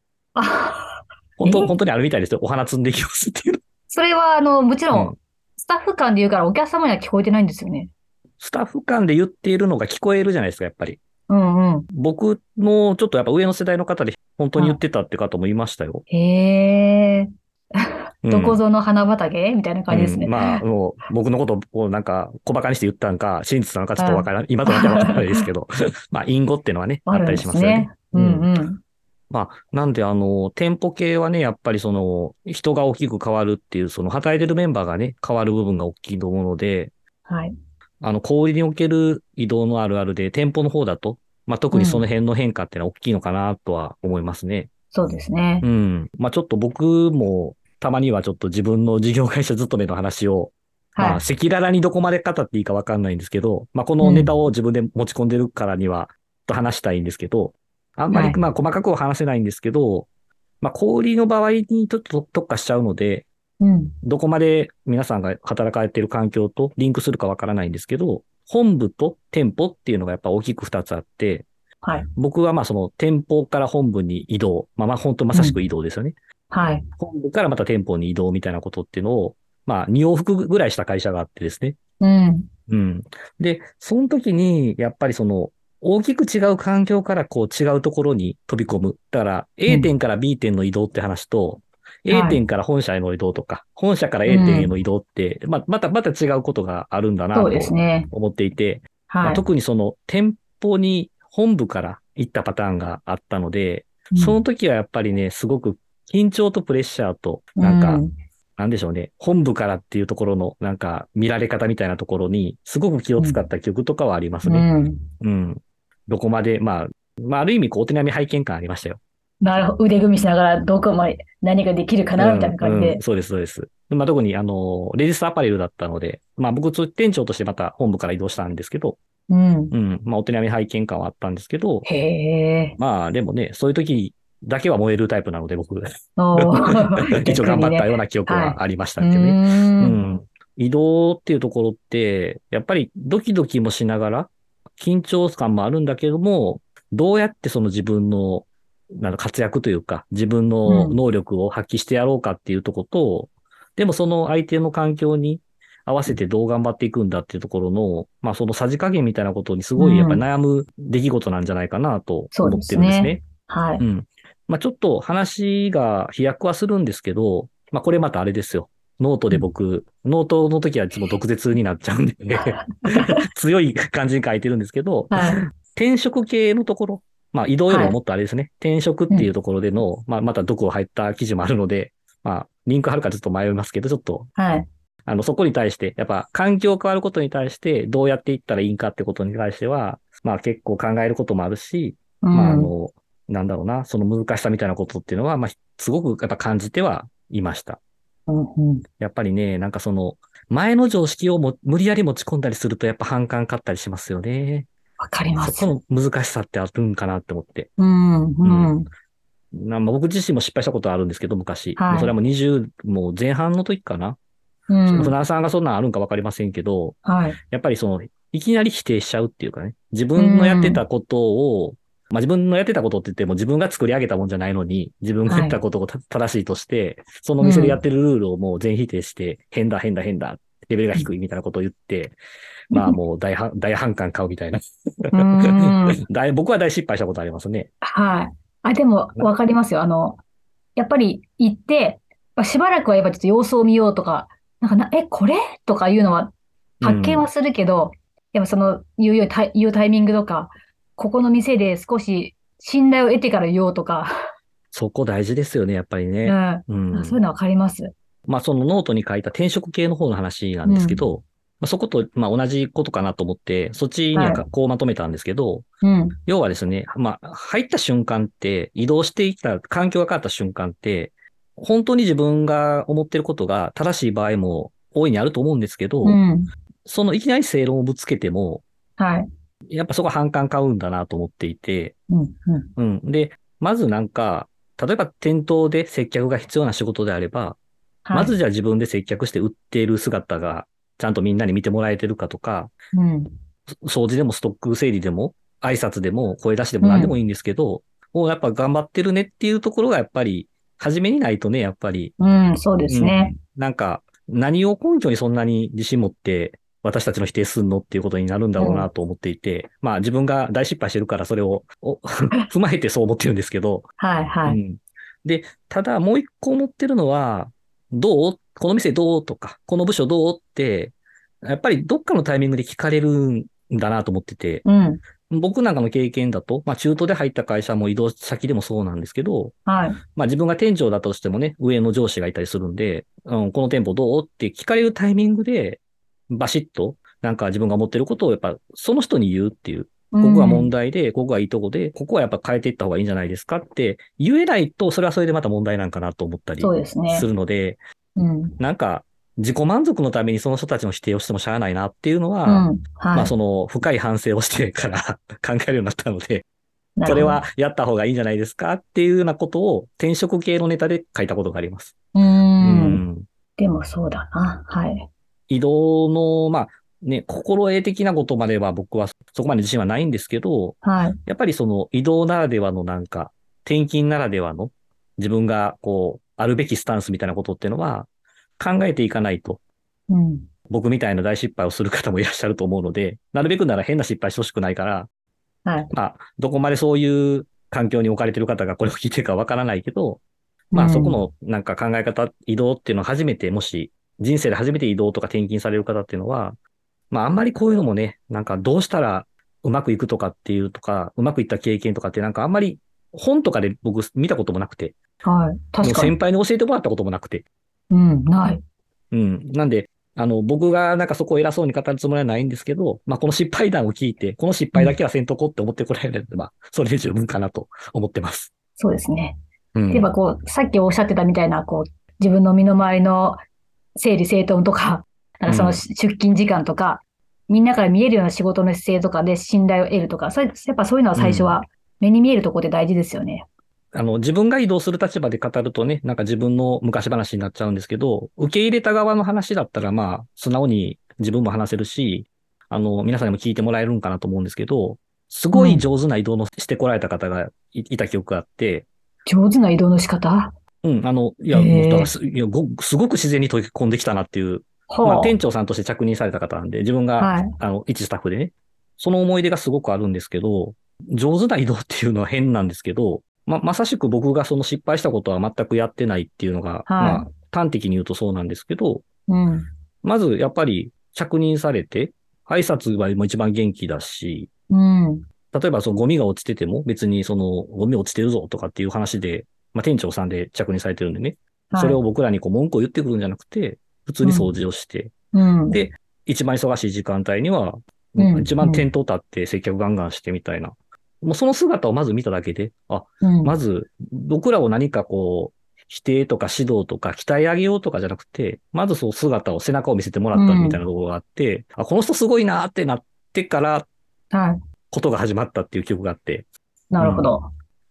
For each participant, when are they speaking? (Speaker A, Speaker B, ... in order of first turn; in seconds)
Speaker A: 0.3-1.7, 3.9-7.9, 11.3-11.9, 16.1-20.6, 24.0-25.5, 27.1-28.8, 37.3-37.5, 41.7-42.1, 44.9-45.7, 51.0-51.2, 54.0-54.3, 58.1-58.4, 63.6-64.0, 71.8-72.1, 75.3-75.6, 76.5-76.8, 82.0-82.5, 92.1-92.4, 94.3-94.7, 97.3-98.1, 99.1-99.5, 104.1-104.4, 107.6-108.1, 113.2-113.4, 114.4-115.1, 119.4-123.0, 129.3-129.8, 131.8-132.8, 136.2-140.0, 150.7-151.0, 159.8-160.2, 162.3-163.8, 172.8-173.1, 175.1-175.4, 177.7-178.0, 184.4-184.7, 192.2-192.7, 198.3-198.8, 205.0-205.7, 207.8-208.9, 211.8-212.1, 214.7-215.2, 217.0-217.4, 220.2-220.8, 225.3-225.6, 227.4-227.8, 232.7-233.0, 235.1-236.0, 237.8-240.2, 240.8-254.1, 256.2-257.9, 260.6-261.0, 264.1-264.5, 265.8-266.2, 276.0-276.5, 279.0-279.3, 282.1-282.7, 288.1-288.4, 292.9-293.3, 296.8-297.1, 302.2-303.4, 308.6-308.9, 314.0-314.6, 324.6-325.0, 329.7-330.0, 340.1-340.7, 346.6-347.3, 348.2-348.6, 352.5-353.3, 357.0-357.4, 362.1-363.0, 363.6-365.1, 370.8-371.2, 380.1-380.5, 385.6-385.9, 390.7-391.2, 405.2-406.2, 407.9-408.6, 418.8-419.4, 419.9-423.4, 424.0-433.5, 445.5-445.9, 449.3-450.5, 451.5-452.1, 454.9-455.4, 457.2-457.5, 466.9-467.3, 469.3-469.7, 474.7-475.2, 481.7-482.0, 484.2-484.5, 485.3-485.8, 488.2-488.9, 493.2-493.6, 500.4-500.8, 504.3-504.6, 506.9-507.5
Speaker B: 1.4-3.6, 4.9-5.2, 8.4-11.0, 11.9-16.0, 18.2-18.6, 19.9-28.5, 29.3-36.9, 38.0-44.7, 45.6-60.1, 60.6-63.3, 64.0-71.5, 72.2-76.2, 77.0-81.8, 82.7-108.0, 108.6-114.7, 115.2-119.0, 122.2-129.0, 129.7-131.9, 132.8-163.2, 163.8-184.3, 185.1-197.8, 199.0-204.7, 205.4-207.7, 208.4-208.8, 209.5-214.2, 214.9-217.0, 217.5-232.2, 232.7-237.7, 246.8-247.3, 254.7-257.2, 258.3-265.7, 266.3-276.2, 276.9-278.6, 279.7-282.0, 282.8-287.6, 288.1-292.7, 293.9-302.1, 302.9-313.9, 314.5-324.6, 325.3-329.6, 330.1-347.8, 348.6-356.5, 357.1-361.9, 362.6-363.3, 365.5-379.6, 380.7-385.1, 385.9-396.6, 397.1-404.9, 405.8-407.5, 409.1-418.5, 419.8-420.1, 425.5-425.8, 431.1-431.6, 433.9-448.9, 450.8-469.1, 470.0-474.5, 475.5-485.1, 485.7-503.9, 504.9-506.5, 507.0-507.3